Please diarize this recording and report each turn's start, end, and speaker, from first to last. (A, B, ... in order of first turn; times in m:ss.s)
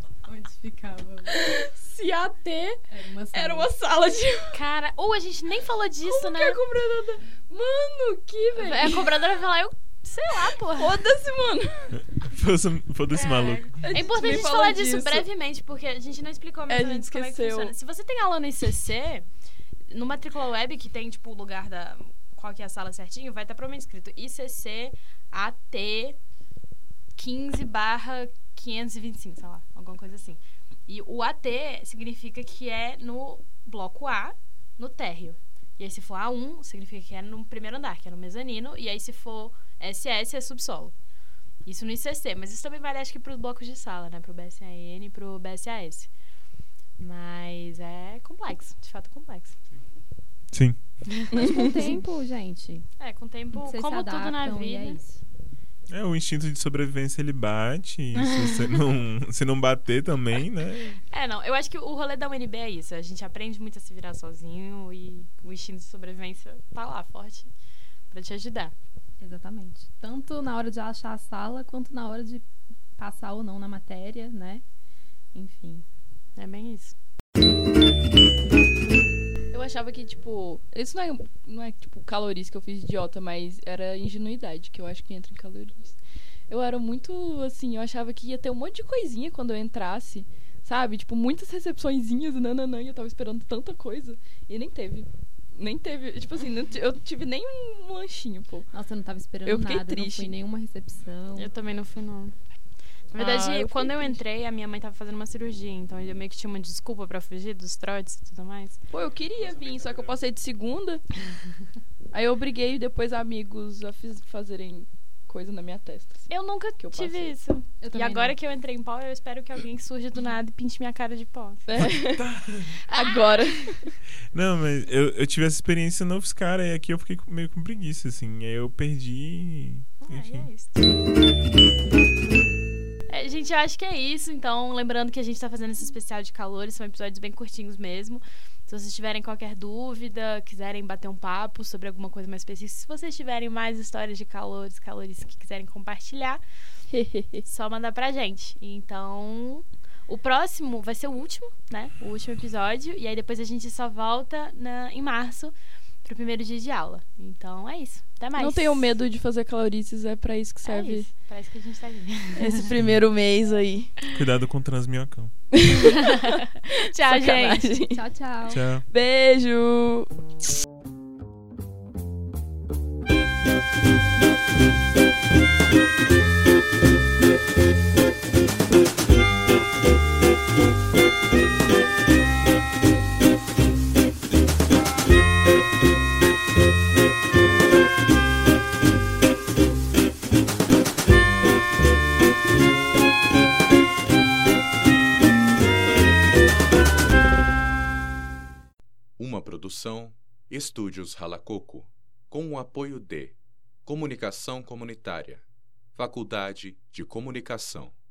0:00.2-0:01.4 A
0:01.8-0:02.8 B
0:02.9-0:03.7 A
0:03.3-0:04.6 C
0:04.5-0:06.6 B
0:06.0-0:09.0 C
0:08.5-0:11.0 B
0:10.7-0:12.0 C
0:12.1-0:13.7 D
0:13.1-0:19.2 B
0:13.8-0:15.3 C
0:16.7-0:17.7 C
0:19.9-0:26.2 B
0:27.2-0:40.9 B
0:41.6-0:46.1 B
0:47.0-0:49.5 B
0:50.5-0:50.8 D
0:51.1-0:51.6 B
0:51.3-0:52.9 A
0:51.3-0:51.6 C
0:53.0-0:55.0 B
0:53.5-0:55.2 A
0:55.9-1:01.0 D
0:58.2-0:58.8 B
1:01.1-1:07.5 B
1:08.1-1:08.7 B
1:09.2-1:12.4 A
1:13.0-1:14.6 A
1:15.3-1:15.8 A
1:16.4-1:16.9 B
1:19.5-1:26.0 C
1:26.5-1:38.7 C
1:38.7-1:41.5 A
1:39.4-1:40.3 C
1:41.3-1:42.3 B
1:43.1-1:48.8 B
1:43.2-1:44.2 C
1:48.9-1:51.0 C
1:49.3-1:50.2 D
1:52.1-1:57.4 C
1:56.3-2:01.6 B
1:57.8-1:58.4 A
2:01.7-2:02.2 C
2:01.8-2:02.8 D
2:02.9-2:03.7 B
2:02.9-2:03.9 C
2:04.3-2:10.5 D
2:10.0-2:11.1 B
2:13.1-2:26.4 B
2:26.9-2:27.4 C
2:27.4-2:38.9 B
2:38.4-2:41.1 C
2:40.6-2:42.7 B
2:42.4-2:43.9 C
2:44.1-2:45.3 D
2:45.5-2:46.4 C
2:45.7-2:47.7 B
2:47.0-2:48.0 C
2:47.9-2:48.6 A
2:48.5-2:48.8 D
2:48.9-2:50.1 C
3:19.2-3:25.4 E
3:25.9-3:27.9 E